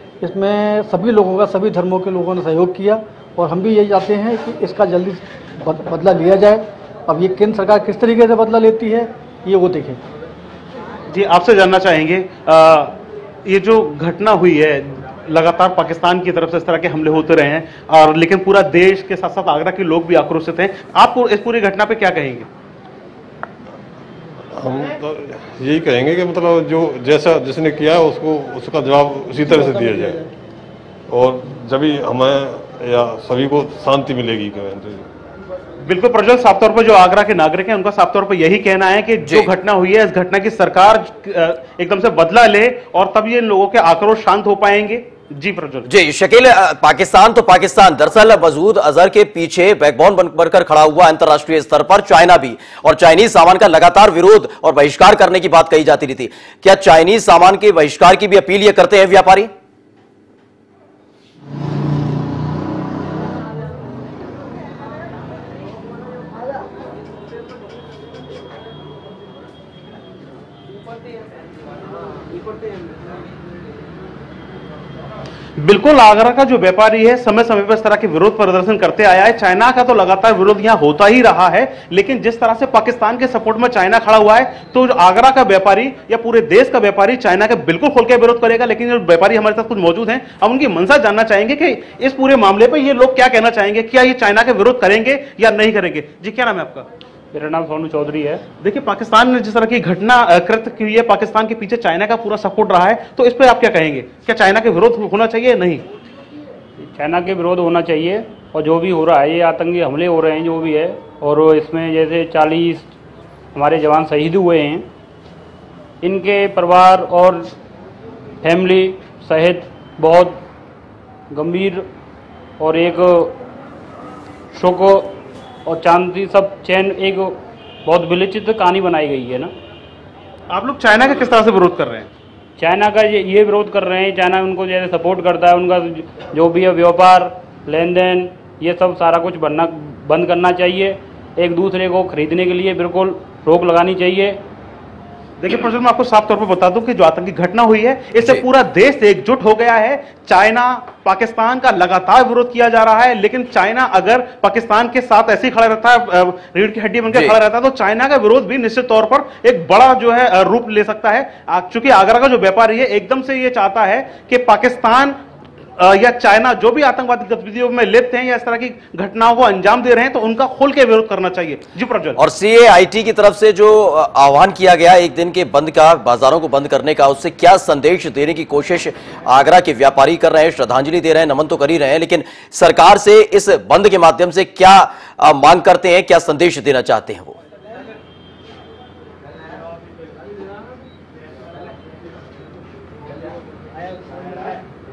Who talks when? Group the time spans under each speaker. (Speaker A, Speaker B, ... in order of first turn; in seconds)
Speaker A: 0.2-10.0, 29.4-30.2
Speaker B: 11.1-22.5, 35.8-45.9, 75.6-96.9, 98.6-105.8, 130.5-132.1, 145.4-165.2, 165.8-172.2
Speaker C: 24.5-30.2, 31.1-35.0
Speaker D: 39.2-39.5, 45.9-59.5, 172.2-187.4
Speaker E: 97.3-98.4, 106.9-112.9, 113.5-114.8, 116.0-117.5, 118.4-120.4, 121.3-121.8, 122.6-123.4, 124.5-125.2, 125.7-129.5, 132.6-144.4